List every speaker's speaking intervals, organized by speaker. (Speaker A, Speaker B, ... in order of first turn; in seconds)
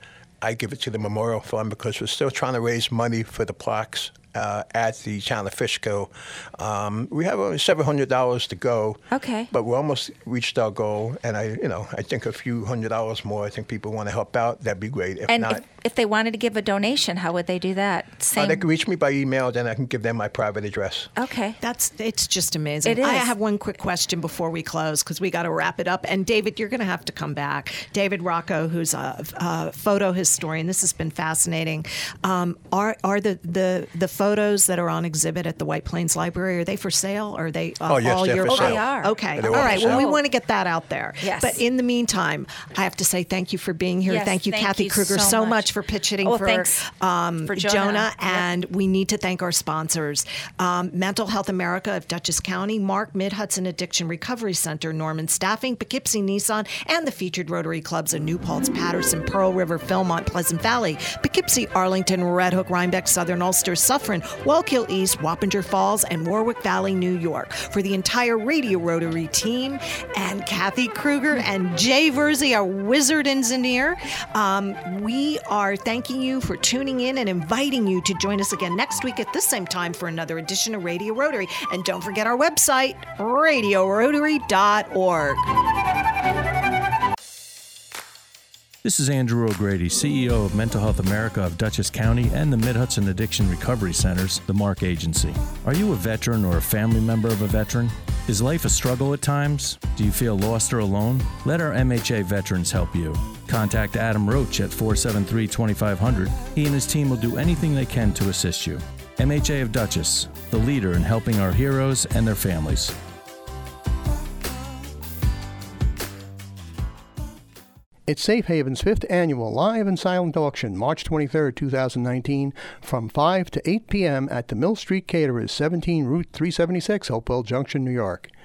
Speaker A: 0.4-15.6, 18.4-21.1, 37.9-40.1
Speaker B: 9.1-9.5, 15.3-18.6, 21.2-21.6, 22.9-23.3, 38.4-40.2, 41.2-41.6, 44.1-46.8, 47.5-48.5
Speaker C: 21.6-85.5
Speaker D: 88.8-113.0
Speaker E: 118.1-128.3